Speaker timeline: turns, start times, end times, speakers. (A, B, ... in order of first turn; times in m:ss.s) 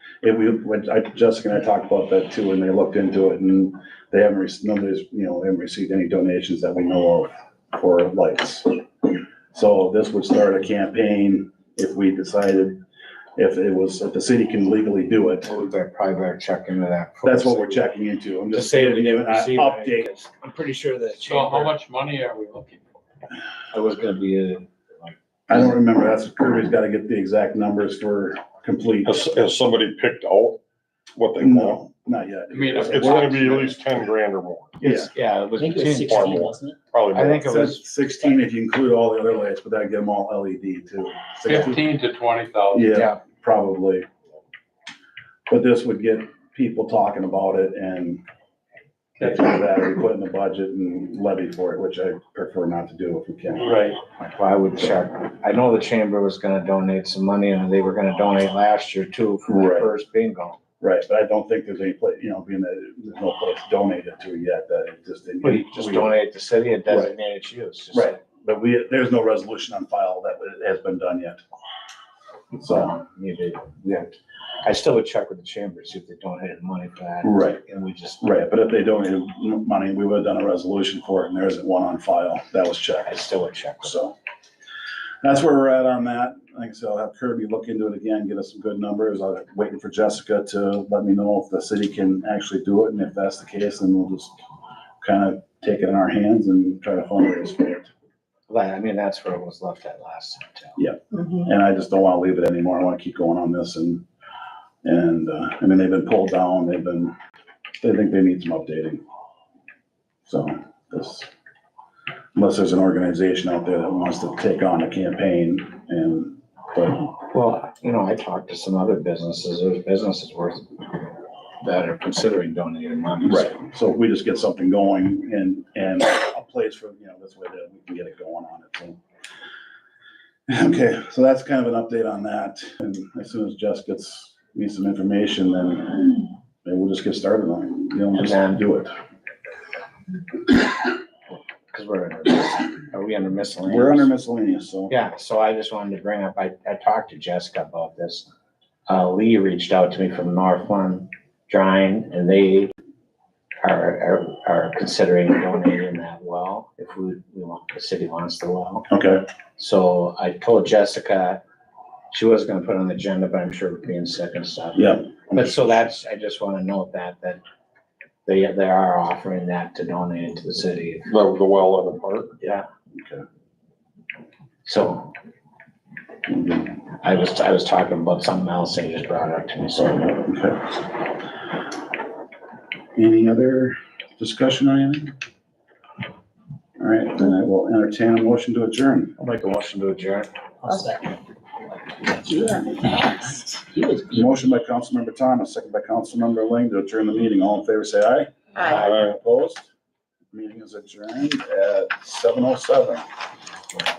0:00.2-0:08.8 A
0:09.5-0:12.8 A
0:13.4-0:15.5 A
0:15.4-0:17.9 B
0:17.2-0:20.1 A
0:18.5-0:21.8 B
0:21.3-0:22.8 C
0:23.7-0:25.8 B
0:25.5-0:29.2 A
0:29.0-0:30.6 D
0:31.2-0:31.8 D
0:31.4-0:33.8 A
0:32.5-0:33.4 C
0:32.7-0:34.8 D
0:34.8-0:36.4 B
0:34.8-0:35.1 A
0:35.6-0:36.8 E
0:35.9-0:37.5 D
0:37.1-0:38.3 B
0:37.4-0:41.8 A
0:41.5-0:43.0 C
0:42.7-0:44.1 A
0:42.9-0:43.2 B
0:45.5-0:48.2 A
0:49.2-0:53.9 A
0:53.6-0:54.0 C
0:54.2-1:00.6 B
0:59.5-0:59.9 A
1:00.8-1:06.2 A
1:05.4-1:08.2 B
1:06.9-1:07.2 A
1:07.9-1:11.4 A
1:12.6-1:13.0 A
1:12.6-1:14.1 B
1:14.6-1:18.2 B
1:17.2-1:17.6 A
1:18.2-1:23.2 A
1:23.0-1:24.0 B
1:23.8-1:24.1 A
1:25.2-1:34.3 A
1:35.0-1:37.9 A
1:38.5-1:40.8 B
1:40.8-1:44.0 A
1:44.8-1:47.2 A
1:47.8-1:49.0 A
1:50.3-1:51.3 A
1:52.4-1:57.1 A
1:57.3-2:01.0 B
2:01.6-2:03.6 B
2:03.2-2:09.0 A
2:10.5-2:18.9 A
2:18.1-2:18.6 B
2:21.7-2:24.1 B
2:23.7-2:25.0 A
2:24.9-2:28.3 B
2:28.9-2:32.7 B
2:33.6-2:38.9 B
2:38.9-2:39.2 A
2:39.6-2:41.4 B
2:42.1-2:47.4 B
2:44.8-2:45.9 A
2:48.3-2:51.1 B
2:51.0-2:52.3 D
2:53.0-2:53.2 A
2:54.6-2:55.1 B
2:56.3-2:56.7 A
2:57.0-3:00.2 B
3:00.1-3:00.7 A
3:03.0-3:05.1 A
3:06.8-3:09.1 A
3:09.2-3:10.3 B
3:10.7-3:11.2 E
3:12.3-3:13.4 E
3:13.9-3:19.7 A
3:18.6-3:18.9 E
3:18.6-3:18.9 B
3:20.3-3:23.0 A